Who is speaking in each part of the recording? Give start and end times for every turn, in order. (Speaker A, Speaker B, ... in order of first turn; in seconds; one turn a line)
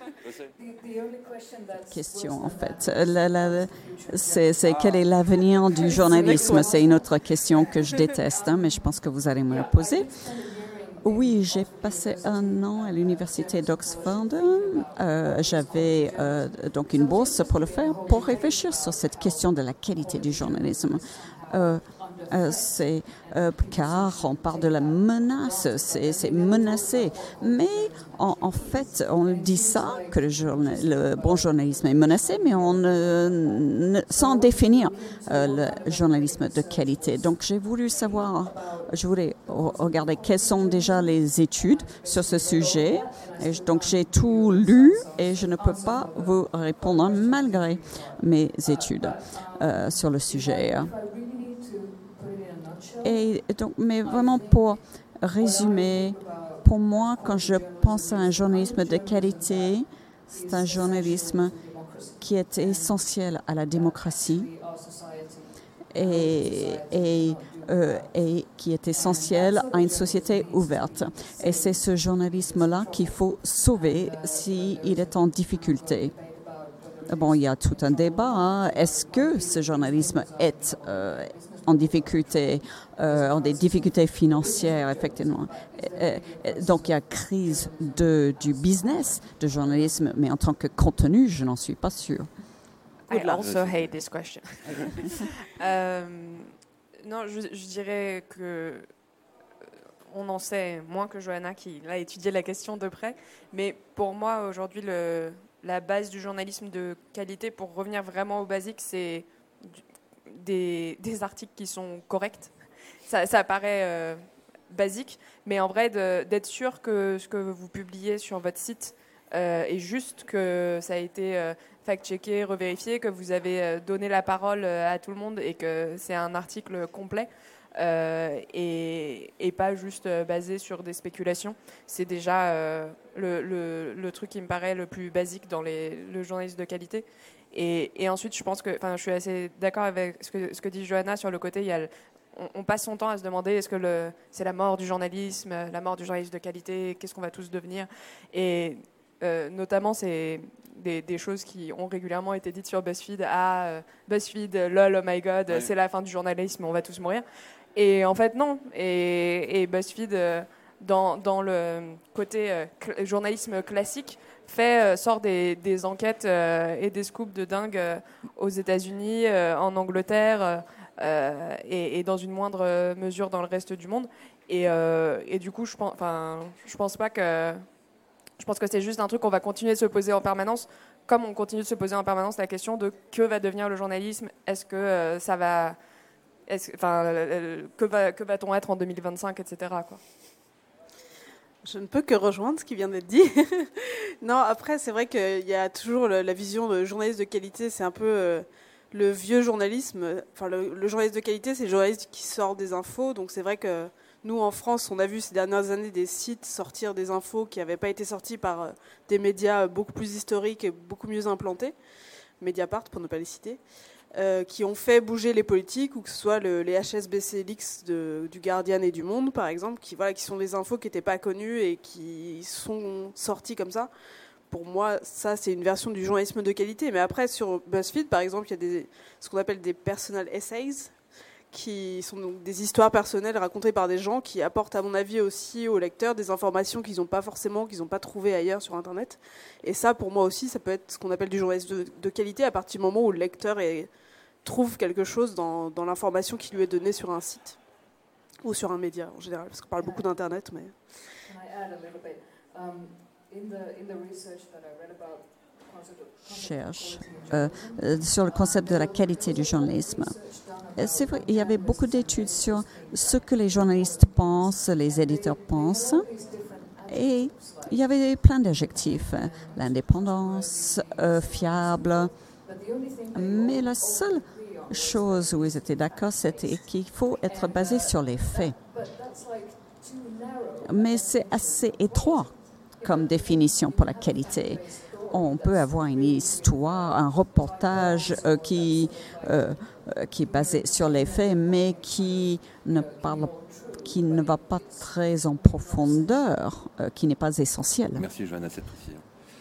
Speaker A: 0.2-0.5
Speaker B: 0.5-53.2
Speaker C: 1.9-50.9
Speaker A: 4.6-5.0
Speaker D: 6.0-6.8
Speaker C: 53.0-61.6
Speaker B: 54.0-54.8
Speaker B: 55.4-63.1
Speaker C: 62.2-64.5
Speaker B: 63.7-68.1
Speaker C: 65.9-76.1
Speaker B: 68.9-90.0
Speaker C: 77.1-92.3
Speaker E: 93.1-96.5
Speaker D: 93.1-93.4
Speaker A: 93.4-93.9
Speaker E: 97.0-98.9
Speaker E: 100.1-112.5
Speaker E: 113.1-157.2
Speaker E: 157.8-177.7
Speaker E: 178.4-185.8
Speaker E: 186.5-190.0
Speaker D: 191.6-211.7
Speaker D: 212.4-213.6
Speaker D: 214.1-223.9
Speaker D: 224.5-230.9
Speaker D: 231.5-243.9
Speaker D: 244.4-247.6
Speaker D: 248.4-250.8
Speaker B: 249.8-250.1
Speaker B: 251.2-267.9
Speaker C: 256.2-266.1
Speaker C: 266.9-272.1
Speaker B: 268.5-296.3
Speaker C: 273.1-278.6
Speaker C: 280.6-298.1
Speaker A: 298.0-299.1